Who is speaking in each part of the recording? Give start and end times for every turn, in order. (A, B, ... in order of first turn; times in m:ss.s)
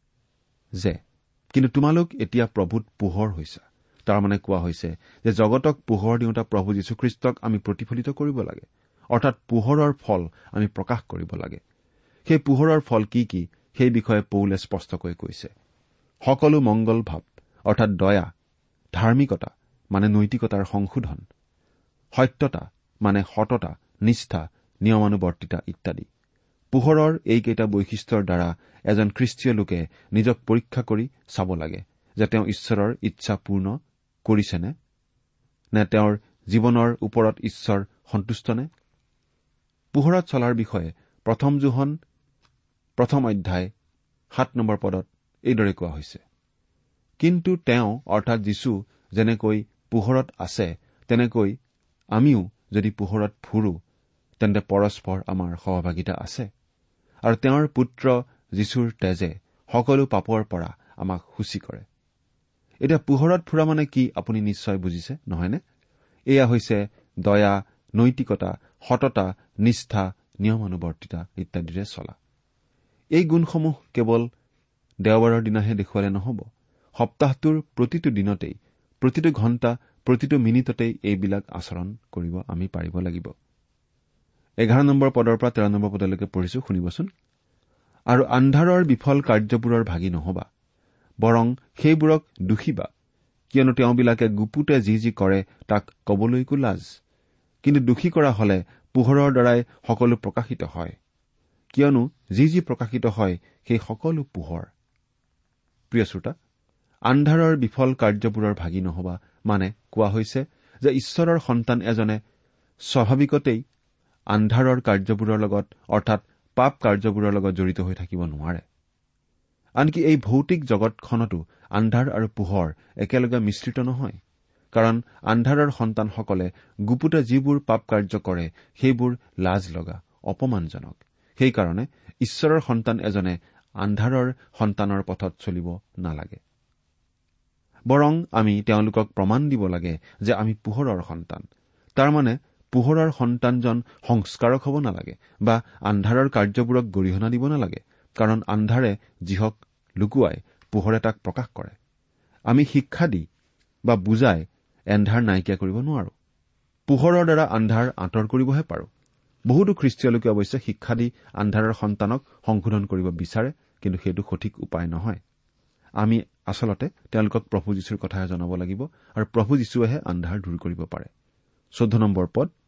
0:01.5-0:11.6 A
0:12.3-0:15.5 A
0:16.3-0:18.3 A
0:19.0-0:21.2 A
0:22.2-0:26.1 A
0:26.7-0:33.7 A
0:34.2-0:34.7 A
0:35.8-0:38.7 A
0:39.9-0:42.0 A
0:43.0-0:43.7 A
0:44.3-0:46.2 A
0:47.2-0:51.6 A
0:52.2-0:53.7 A
0:54.4-0:56.5 A
0:57.3-1:01.8 A
1:02.8-1:05.6 A
1:06.3-1:12.2 A
1:13.2-1:14.3 A
1:15.0-1:16.4 A
1:17.0-1:23.3 A
1:24.6-1:27.1 A
1:28.1-1:30.4 A
1:31.2-1:32.9 A
1:33.5-1:36.8 A
1:37.6-1:41.0 A
1:41.7-1:44.7 A
1:45.9-1:46.3 A
1:47.1-1:52.2 A
1:52.9-1:53.6 A
1:54.3-1:58.6 A
1:59.8-2:04.2 A
2:04.7-2:16.4 A
2:17.9-2:21.4 A
2:22.0-2:31.7 A
2:32.5-2:33.2 A
2:33.9-2:36.1 A
2:36.9-2:38.9 A
2:39.5-2:45.2 A
2:46.0-2:51.1 A
2:51.8-2:52.5 A